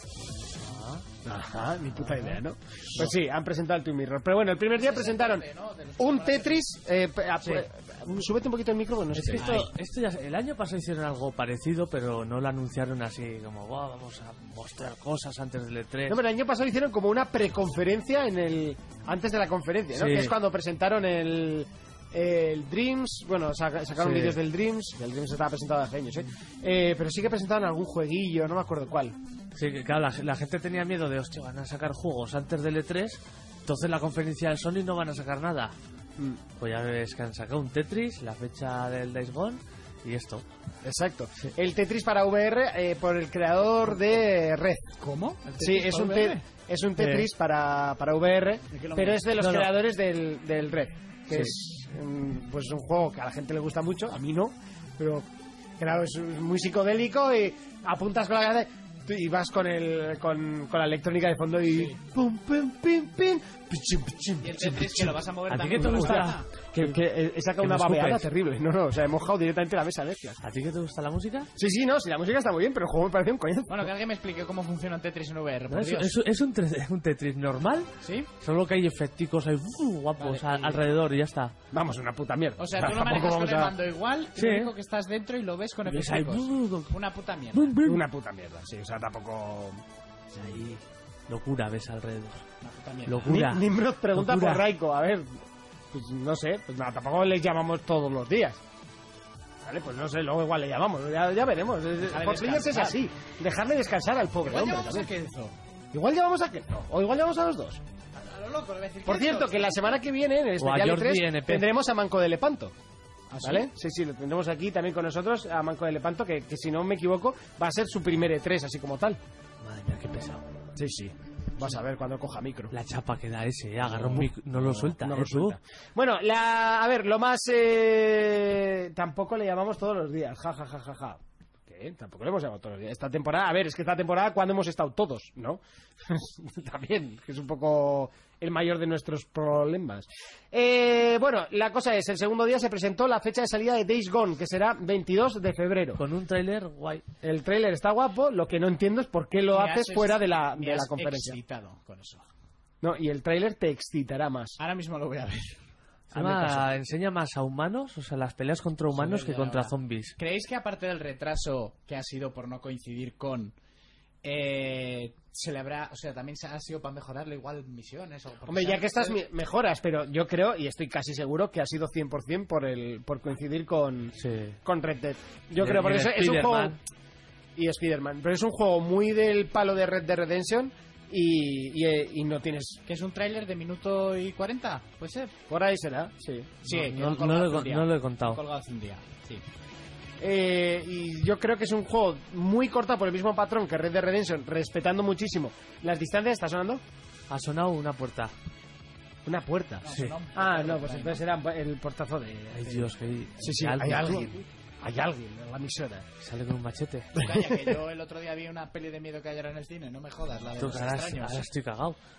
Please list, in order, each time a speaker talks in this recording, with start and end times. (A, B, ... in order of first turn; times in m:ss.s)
0:00.6-0:01.0 A
0:01.2-0:05.4 B
0:04.8-0:06.7 C
0:06.0-0:09.7 B
0:09.1-0:16.2 A
0:09.4-0:09.6 C
0:16.1-0:29.2 B
0:20.0-0:20.3 A
0:24.0-0:24.4 A
0:29.5-0:35.7 A
0:36.6-0:40.4 A
0:40.8-0:44.9 B
0:45.0-0:46.4 C
0:45.6-1:10.4 B
0:47.0-0:47.3 A
0:48.7-0:49.3 C
0:49.4-0:49.7 A
1:01.7-1:02.0 C
1:04.4-1:06.5 C
1:05.5-1:07.0 A
1:07.6-1:08.2 A
1:10.4-1:11.5 A
1:11.6-1:13.9 B
1:13.7-1:16.1 C
1:15.7-1:17.9 A
1:18.0-1:18.3 C
1:18.4-1:21.5 A
1:20.2-1:20.8 C
1:21.7-1:23.8 B
1:22.6-1:27.8 C
1:24.4-1:24.7 A
1:25.9-1:26.9 A
1:27.5-1:28.0 A
1:27.8-1:29.8 B
1:31.3-1:32.4 A
1:32.6-1:33.4 C
1:33.1-1:34.6 A
1:33.2-1:35.3 B
1:35.9-1:38.6 B
1:39.6-1:45.1 B
1:42.0-1:43.0 C
1:44.4-1:45.5 C
1:45.9-1:47.8 B
1:48.1-1:49.7 C
1:49.0-1:52.7 B
1:50.6-1:51.7 A
1:53.3-1:53.7 C
1:53.4-1:59.2 B
1:59.6-2:00.4 A
2:00.7-2:02.7 B
2:02.7-2:05.6 A
2:03.8-2:26.0 B
2:26.0-2:27.0 A
2:27.2-2:31.4 B
2:29.5-2:32.3 C
2:32.8-2:34.6 B
2:34.6-2:35.6 C
2:36.1-2:40.2 A
2:36.1-2:36.6 C
2:38.9-2:43.5 C
2:44.2-2:49.2 C
2:48.5-2:56.8 B
2:54.2-2:54.6 A
2:55.6-2:56.8 A
2:57.6-3:02.8 B
3:02.8-3:05.3 C
3:05.5-3:06.5 B
3:06.6-3:09.4 C
3:06.7-3:08.4 A
3:10.2-3:16.8 B
3:17.3-3:18.3 A
3:19.2-3:26.0 B
3:19.8-3:21.2 C
3:22.5-3:24.3 A
3:26.2-3:27.1 A
3:27.1-3:31.5 C
3:27.2-3:27.7 B
3:30.6-3:32.0 A